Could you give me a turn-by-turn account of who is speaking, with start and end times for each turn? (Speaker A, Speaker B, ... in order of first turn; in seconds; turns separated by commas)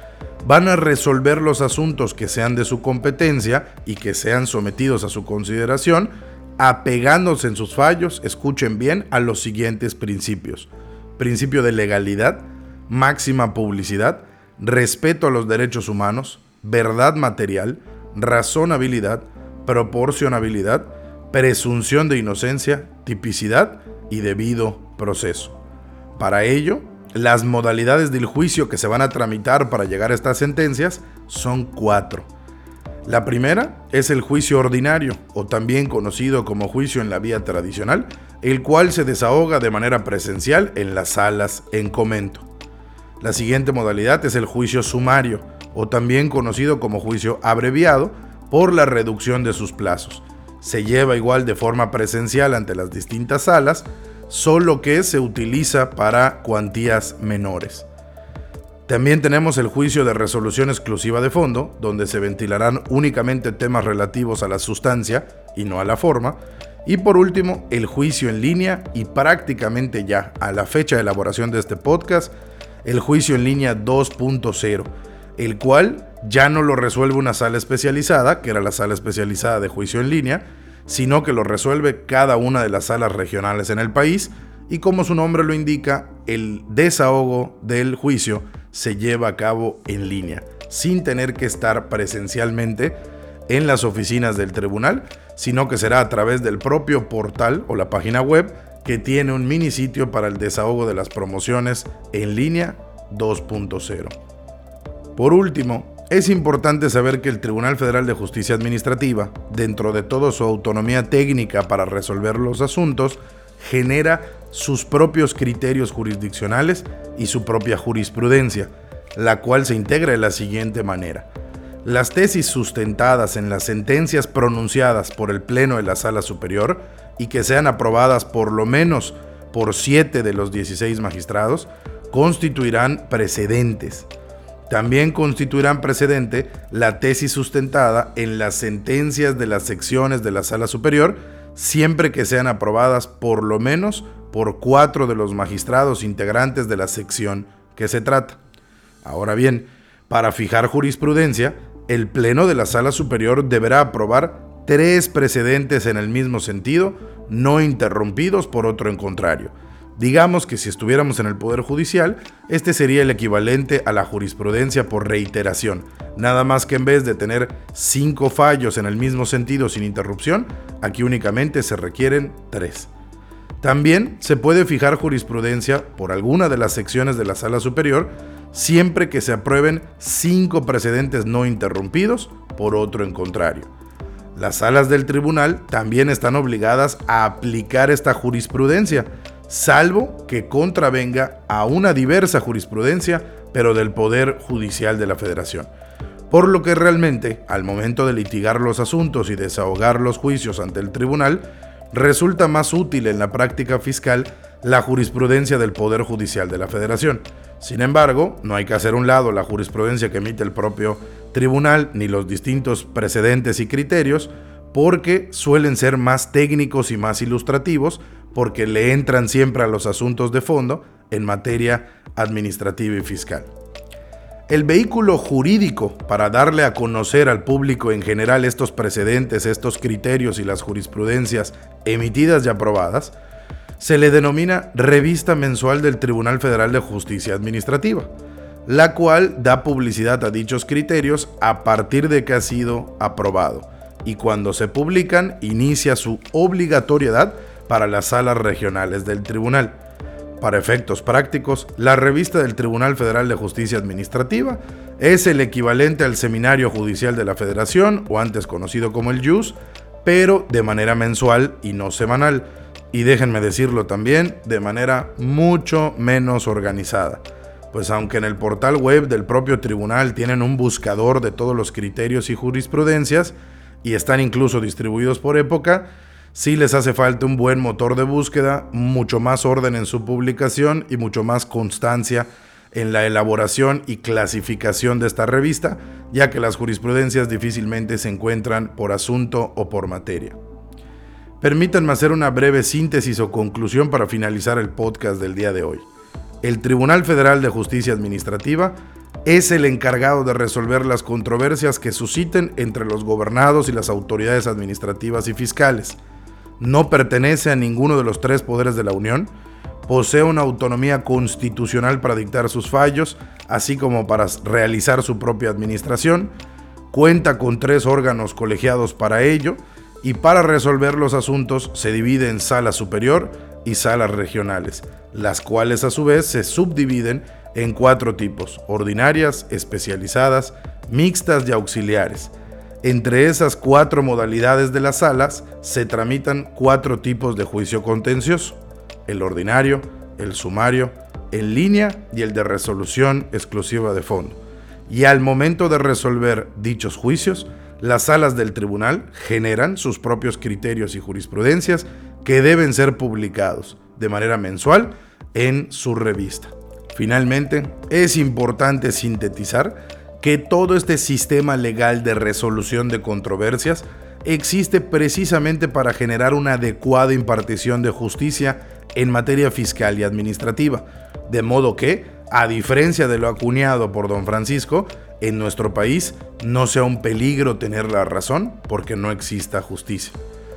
Speaker A: 0.4-25.6, Speaker A: 26.2-32.3, Speaker A: 33.0-42.5, Speaker A: 43.2-57.9, Speaker A: 58.9-72.3, Speaker A: 72.8-93.0, Speaker A: 93.5-104.1, Speaker A: 105.2-121.3, Speaker A: 121.8-134.1, Speaker A: 134.7-148.4, Speaker A: 149.0-172.9, Speaker A: 173.6-183.7, Speaker A: 184.3-195.7, Speaker A: 196.3-223.5, Speaker A: 224.5-233.1, Speaker A: 233.8-238.1, Speaker A: 238.7-249.8, Speaker A: 250.4-290.4, Speaker A: 291.4-295.9, Speaker A: 296.4-306.0, Speaker A: 306.6-309.3, Speaker A: 309.9-316.3, Speaker A: 316.9-380.2